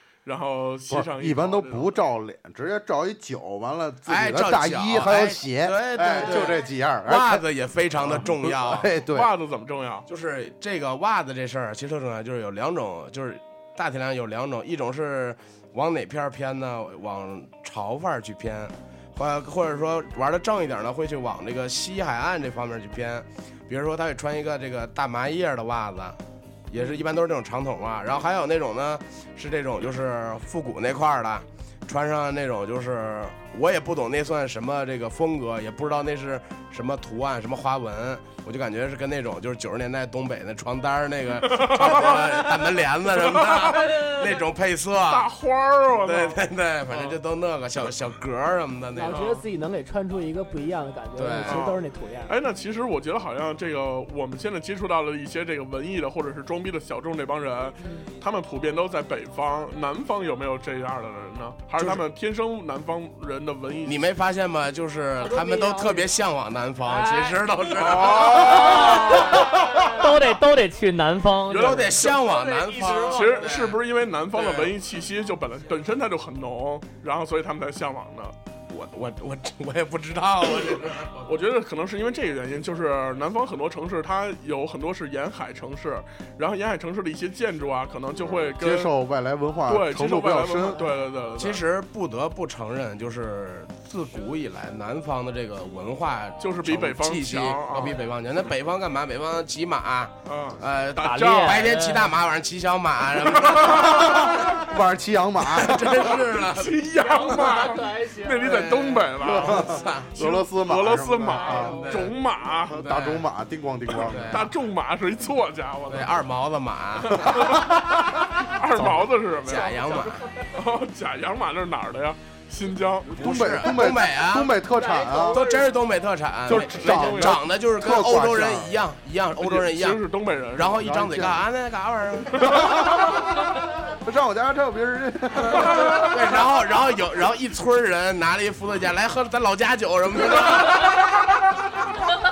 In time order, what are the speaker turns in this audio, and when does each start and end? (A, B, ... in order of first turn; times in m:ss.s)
0:00.2-0:02.0 A
0:00.9-0:07.4 B
0:04.0-0:08.9 C
0:08.0-0:09.3 B
0:09.0-0:10.0 A
0:10.1-0:45.3 C
0:41.4-0:44.4 A
0:44.9-0:47.2 A
0:46.0-0:49.2 C
0:48.9-0:52.3 D
0:49.1-0:49.4 A
0:51.1-0:51.8 C
0:51.4-1:04.1 A
0:57.8-0:58.1 D
1:01.8-1:02.0 C
1:03.8-1:09.9 C
1:05.2-1:06.1 D
1:06.8-1:07.4 D
1:07.7-1:09.0 A
1:08.4-1:12.0 E
1:08.8-1:09.8 D
1:11.5-1:12.3 A
1:11.5-1:13.8 C
1:12.2-1:13.4 D
1:12.9-1:18.3 A
1:14.3-1:14.8 C
1:18.7-1:21.3 C
1:21.2-1:28.9 A
1:28.6-1:30.9 B
1:29.6-1:31.6 A
1:31.4-1:44.5 C
1:36.4-1:38.0 A
1:40.2-1:41.8 A
1:41.0-1:42.1 E
1:43.3-1:44.6 A
1:43.9-1:46.2 B
1:45.5-1:46.8 C
1:46.2-1:52.8 A
1:47.0-1:48.4 D
1:48.4-1:50.1 C
1:49.2-1:51.8 B
1:51.4-1:51.9 D
1:51.6-1:52.2 C
1:52.7-1:54.5 B
1:52.7-1:53.2 C
1:54.0-1:54.5 C
1:54.3-1:56.1 A
1:55.9-1:57.8 C
1:57.0-1:59.8 A
1:58.7-2:00.3 C
1:59.7-2:00.0 D
2:00.5-2:03.1 A
2:03.1-2:04.6 C
2:03.1-2:05.4 B
2:04.7-2:05.7 D
2:05.3-2:12.9 C
2:06.4-2:08.7 B
2:06.5-2:07.4 A
2:09.4-2:10.8 A
2:10.7-2:11.4 B
2:12.4-2:16.4 B
2:15.8-2:21.2 C